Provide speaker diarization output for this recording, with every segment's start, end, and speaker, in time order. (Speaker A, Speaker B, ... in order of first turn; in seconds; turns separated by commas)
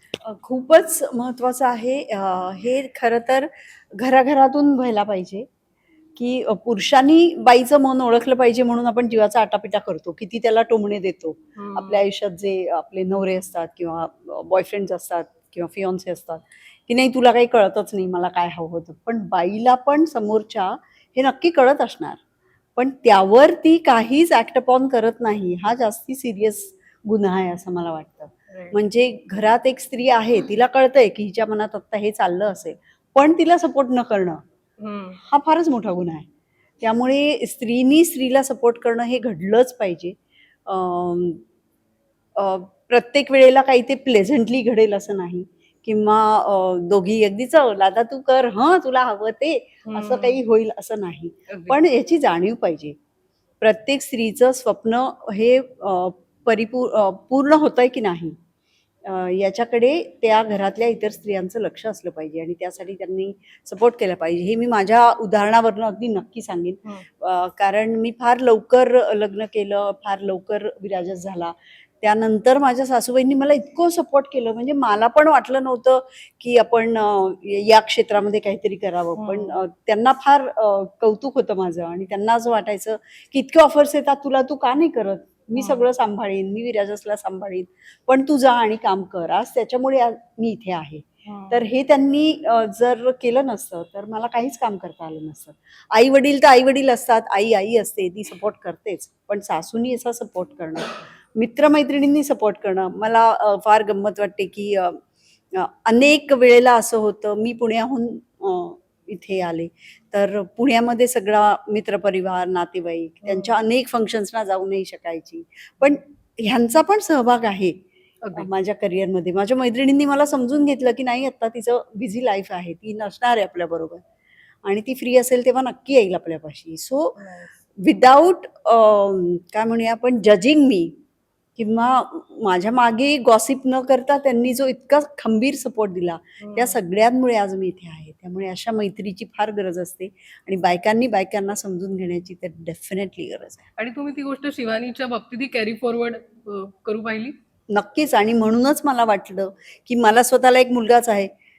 Speaker A: 0.2-5.5, Speaker A: 6.2-22.2, Speaker B: 11.6-12.1, Speaker A: 22.8-34.4, Speaker B: 28.5-28.8, Speaker B: 34.8-35.2, Speaker A: 35.2-36.2, Speaker A: 36.8-40.1, Speaker A: 40.7-41.4, Speaker A: 42.4-53.0, Speaker B: 49.9-50.4, Speaker B: 51.5-51.8, Speaker A: 53.6-58.4, Speaker A: 59.0-105.0, Speaker B: 79.2-79.5, Speaker B: 85.6-85.8, Speaker B: 91.2-91.6, Speaker A: 105.5-117.8, Speaker B: 113.2-113.5, Speaker B: 118.2-118.5, Speaker A: 118.3-124.0, Speaker A: 124.6-127.1, Speaker B: 127.2-127.5, Speaker A: 127.8-130.9, Speaker A: 131.6-143.7, Speaker B: 136.4-136.8, Speaker B: 143.8-147.3, Speaker A: 147.7-151.3